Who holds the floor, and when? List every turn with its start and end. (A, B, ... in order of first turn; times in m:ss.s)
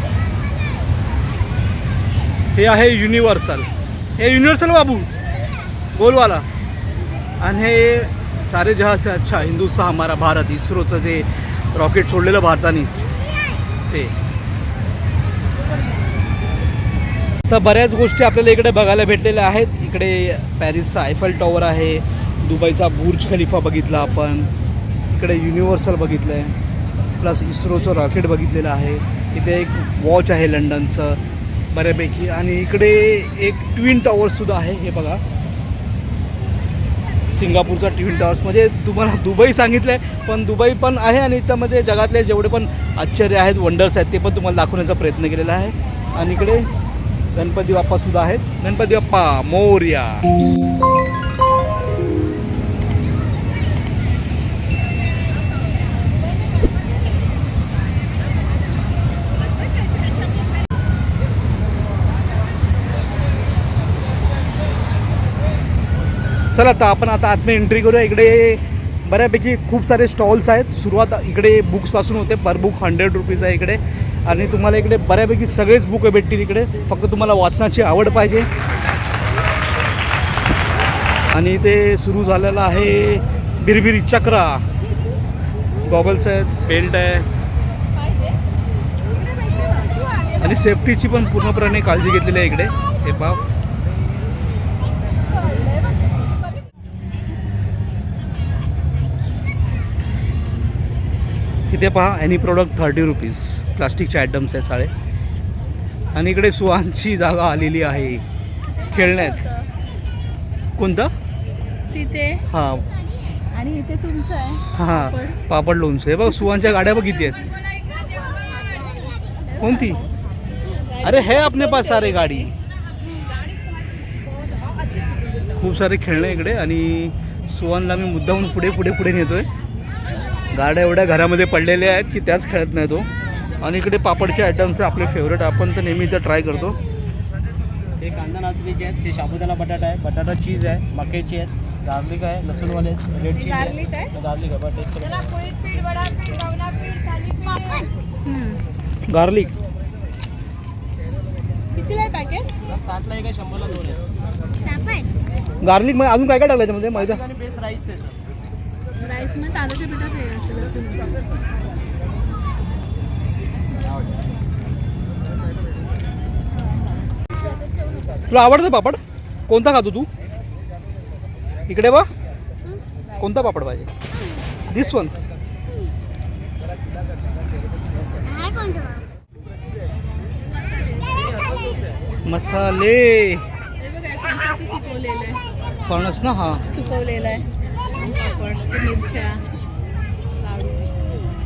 0:02.5-0:05.1 A
0:05.9-0:06.4 A
0:07.4-0:13.0 A
0:13.9-0:14.1 A
0:17.5-0:24.5 A
0:25.1-0:26.5 A
0:27.2-0:31.2 A
0:31.7-0:35.2 A
0:37.3-0:46.7 A
0:47.3-0:50.3 A
0:59.8-1:00.2 B
1:06.5-1:18.5 A
1:21.3-1:24.6 A
1:25.8-1:27.3 A
1:27.9-1:28.4 B
1:29.2-1:30.7 B
1:30.4-1:33.4 A
1:35.1-1:36.3 B
1:41.7-1:44.9 A
1:46.1-1:48.2 A
1:48.7-1:49.7 B
1:48.9-1:49.4 A
1:50.8-1:51.1 A
1:51.9-1:52.4 B
1:52.5-1:52.8 A
1:53.5-1:55.4 B
1:54.7-1:57.4 A
1:59.4-2:02.5 B
1:59.6-2:00.0 A
2:01.0-2:02.5 A
2:05.6-2:09.5 A
2:10.5-2:13.1 A
2:13.6-2:16.8 A
2:18.0-2:26.1 C
2:23.3-2:24.1 B
2:28.2-2:28.6 B
2:29.1-2:29.5 A
2:31.7-2:32.5 B
2:32.6-2:34.0 C
2:35.6-2:37.2 A
2:37.0-2:38.2 C
2:39.0-2:41.2 B
2:46.6-2:48.2 B
2:48.3-2:50.1 A
2:51.7-2:52.1 A
2:53.2-2:53.9 A
2:54.7-2:55.1 A
3:00.4-3:02.0 B
3:02.2-3:03.4 A
3:03.8-3:05.4 B
3:05.8-3:06.6 A
3:06.7-3:09.4 B
3:10.3-3:11.0 B